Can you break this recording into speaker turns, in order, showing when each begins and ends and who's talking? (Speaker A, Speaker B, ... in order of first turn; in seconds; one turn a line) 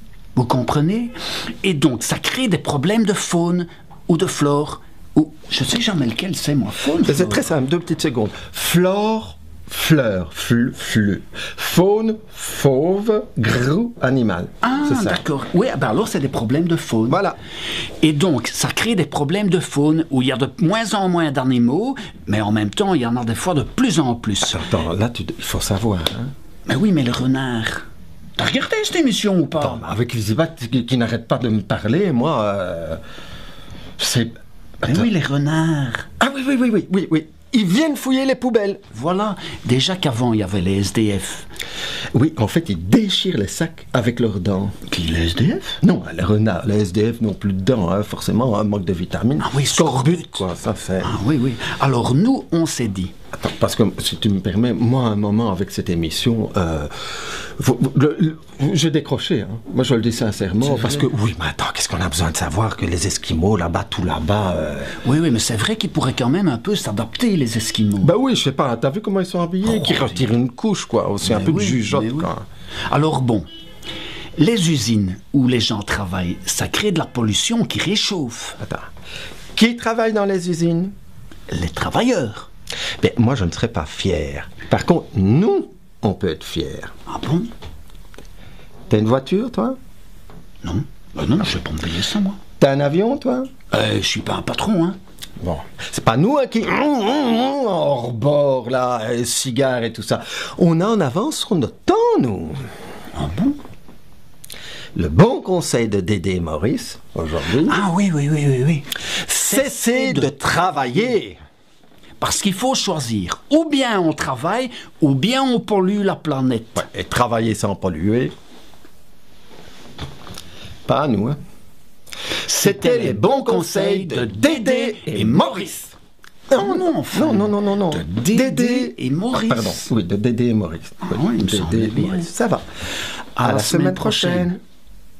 Speaker A: 0.3-7.5
Speaker B: 7.0-15.2
Speaker A: 14.6-17.2
Speaker B: 17.1-17.4
Speaker A: 18.0-24.6
Speaker B: 24.4-26.3
Speaker A: 26.7-27.9
Speaker A: 28.4-29.8
Speaker B: 29.6-33.0
Speaker B: 34.0-35.1
Speaker A: 34.8-36.1
Speaker B: 36.2-38.8
Speaker A: 38.9-41.5
Speaker B: 42.1-44.7
Speaker A: 44.8-45.8
Speaker B: 45.8-51.1
Speaker A: 49.4-50.4
Speaker A: 51.0-53.1
Speaker B: 53.3-65.0
Speaker A: 60.6-61.1
Speaker A: 64.9-68.1
Speaker B: 68.0-72.4
Speaker A: 69.6-70.3
Speaker A: 71.2-72.3
Speaker A: 72.8-73.5
Speaker A: 74.4-78.6
Speaker B: 78.6-78.9
Speaker B: 79.5-80.9
Speaker A: 81.5-82.5
Speaker B: 83.0-86.9
Speaker A: 87.1-87.5
Speaker B: 88.9-89.8
Speaker A: 90.6-92.4
Speaker B: 92.6-93.5
Speaker A: 93.7-95.0
Speaker B: 95.4-102.7
Speaker A: 103.1-103.6
Speaker B: 104.9-107.8
Speaker A: 107.5-110.3
Speaker B: 109.2-111.4
Speaker A: 112.2-116.8
Speaker B: 116.8-118.3
Speaker B: 120.9-121.4
Speaker A: 122.4-125.9
Speaker B: 122.6-125.6
Speaker B: 126.5-132.6
Speaker A: 126.5-129.9
Speaker A: 131.0-132.3
Speaker A: 133.3-134.5
Speaker B: 133.4-134.6